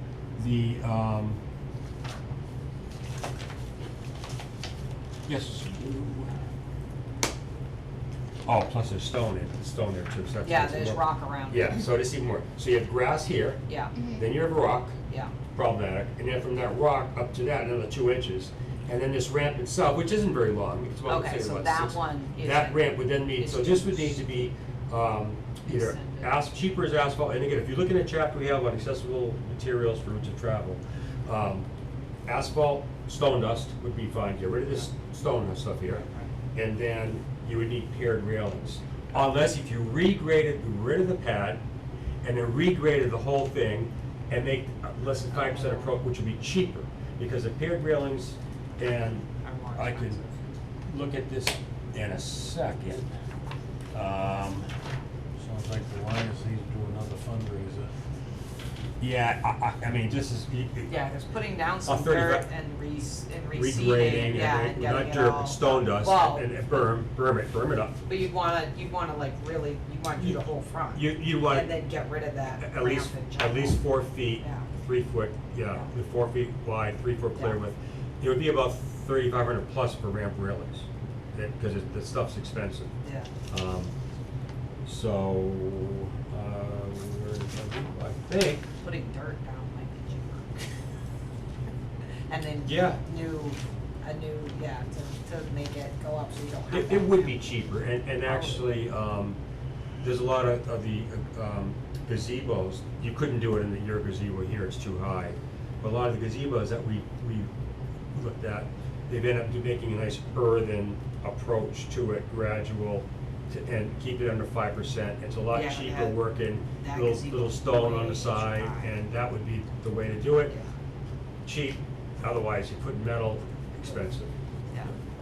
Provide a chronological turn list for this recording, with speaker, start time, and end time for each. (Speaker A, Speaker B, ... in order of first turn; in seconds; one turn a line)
Speaker A: 0.4-1.4
Speaker A: 5.3-6.3
Speaker A: 8.4-13.6
Speaker B: 10.4-11.8
Speaker B: 13.7-13.9
Speaker A: 14.1-14.9
Speaker B: 15.1-15.3
Speaker A: 15.5-31.7
Speaker B: 21.1-24.4
Speaker B: 25.6-26.3
Speaker A: 32.3-41.6
Speaker B: 35.9-36.3
Speaker A: 42.2-50.2
Speaker B: 45.3-45.9
Speaker B: 49.4-50.5
Speaker A: 50.9-53.1
Speaker A: 53.9-54.7
Speaker C: 55.4-57.9
Speaker A: 59.0-60.9
Speaker B: 60.9-66.9
Speaker A: 61.8-62.4
Speaker A: 63.5-68.0
Speaker B: 68.0-73.8
Speaker A: 70.2-71.8
Speaker A: 72.6-82.9
Speaker B: 74.4-74.7
Speaker B: 77.3-77.6
Speaker B: 83.0-83.3
Speaker A: 83.5-83.9
Speaker A: 84.8-88.7
Speaker B: 88.8-90.6
Speaker B: 92.3-97.4
Speaker A: 92.7-93.0
Speaker A: 96.7-99.4
Speaker B: 98.2-98.7
Speaker A: 100.0-107.5
Speaker A: 108.1-120.5
Speaker B: 115.5-116.2
Speaker B: 116.7-118.9
Speaker A: 121.4-124.3